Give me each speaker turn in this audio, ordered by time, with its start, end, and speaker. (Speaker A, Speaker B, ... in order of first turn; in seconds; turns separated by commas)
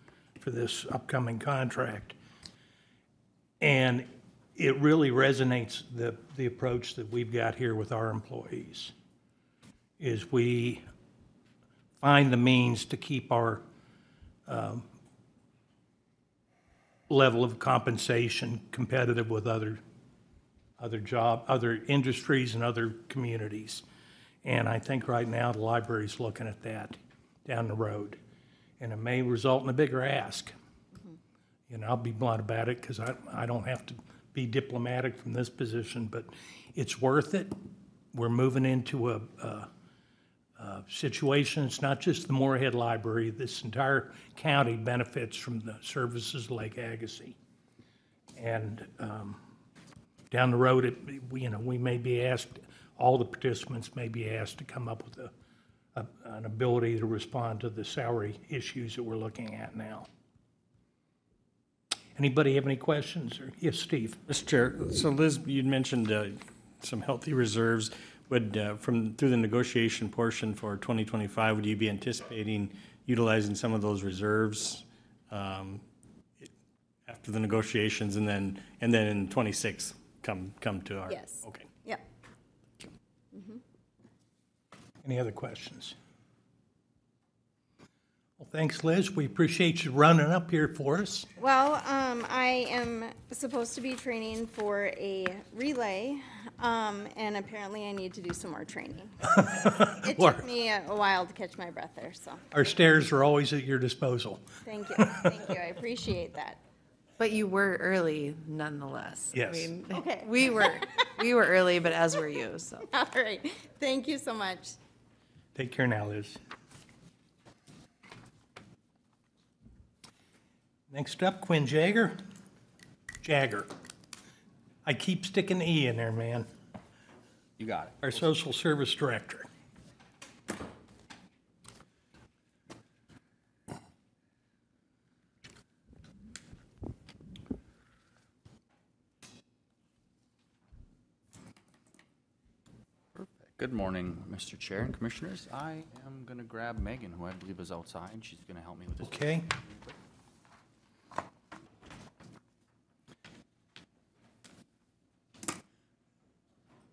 Speaker A: 0.4-2.1, Speaker A: 3.6-8.9, Speaker A: 10.0-10.8, Speaker A: 12.0-13.6, Speaker A: 14.5-14.8, Speaker A: 17.1-19.8, Speaker A: 20.8-23.8, Speaker A: 24.4-28.2, Speaker A: 28.8-30.5, Speaker A: 31.7-37.5, Speaker A: 38.1-39.7, Speaker A: 40.6-47.4, Speaker A: 48.4-49.4, Speaker A: 50.3-55.3, Speaker A: 55.9-60.1, Speaker A: 62.1-64.2, Speaker B: 64.3-75.8, Speaker B: 77.1-81.7, Speaker C: 81.1-82.0, Speaker C: 83.3-83.6, Speaker A: 85.0-85.9, Speaker A: 88.4-91.3, Speaker C: 91.4-102.4, Speaker A: 99.3-100.4, Speaker A: 102.5-105.4, Speaker C: 104.7-106.6, Speaker D: 107.2-112.8, Speaker A: 109.3-109.7, Speaker C: 109.9-110.8, Speaker C: 112.9-114.8, Speaker A: 115.5-116.4, Speaker A: 120.9-122.2, Speaker A: 123.2-123.7, Speaker A: 124.8-126.5, Speaker E: 127.6-128.2, Speaker A: 128.0-129.5, Speaker E: 143.1-149.9, Speaker A: 149.0-149.5